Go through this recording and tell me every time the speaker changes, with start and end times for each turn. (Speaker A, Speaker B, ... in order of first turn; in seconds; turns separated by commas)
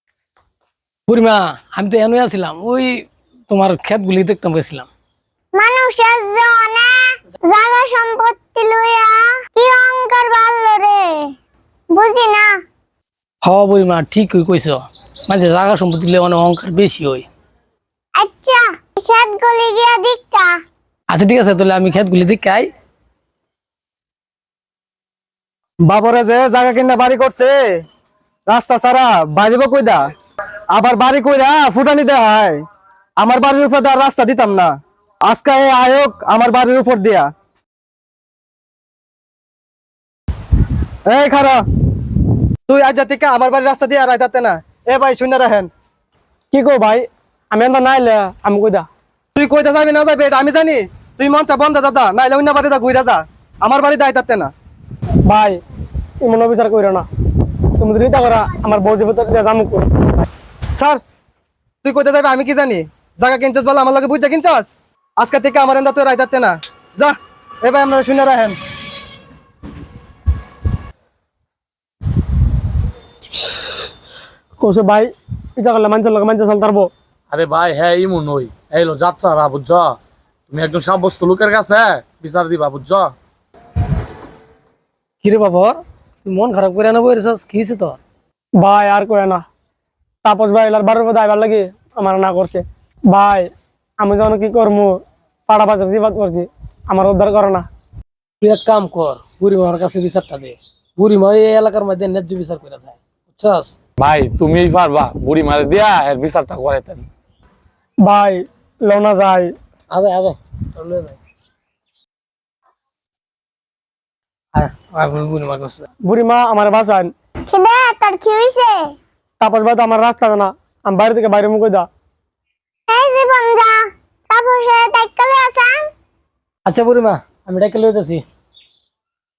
Speaker A: 1.1-4.9, Speaker B: 5.5-11.3, Speaker B: 11.9-12.5, Speaker A: 13.4-17.3, Speaker B: 18.2-20.6, Speaker A: 21.1-22.7, Speaker C: 25.8-27.8, Speaker C: 28.5-30.0, Speaker C: 30.7-32.6, Speaker C: 33.2-34.7, Speaker C: 35.2-37.3, Speaker C: 41.0-41.6, Speaker C: 42.7-45.7, Speaker D: 46.5-48.9, Speaker C: 49.4-54.5, Speaker D: 55.2-55.6, Speaker D: 56.2-57.0, Speaker D: 57.8-59.9, Speaker C: 61.8-68.6, Speaker D: 74.6-76.9, Speaker E: 77.3-80.0, Speaker E: 80.5-83.1, Speaker A: 85.2-88.0, Speaker D: 88.6-89.4, Speaker D: 90.2-97.7, Speaker A: 98.4-103.7, Speaker E: 104.0-107.0, Speaker D: 108.0-109.5, Speaker A: 109.9-111.2, Speaker A: 114.5-115.8, Speaker D: 116.0-117.1, Speaker B: 117.5-118.9, Speaker D: 119.4-121.9, Speaker B: 122.9-125.9, Speaker A: 126.7-128.2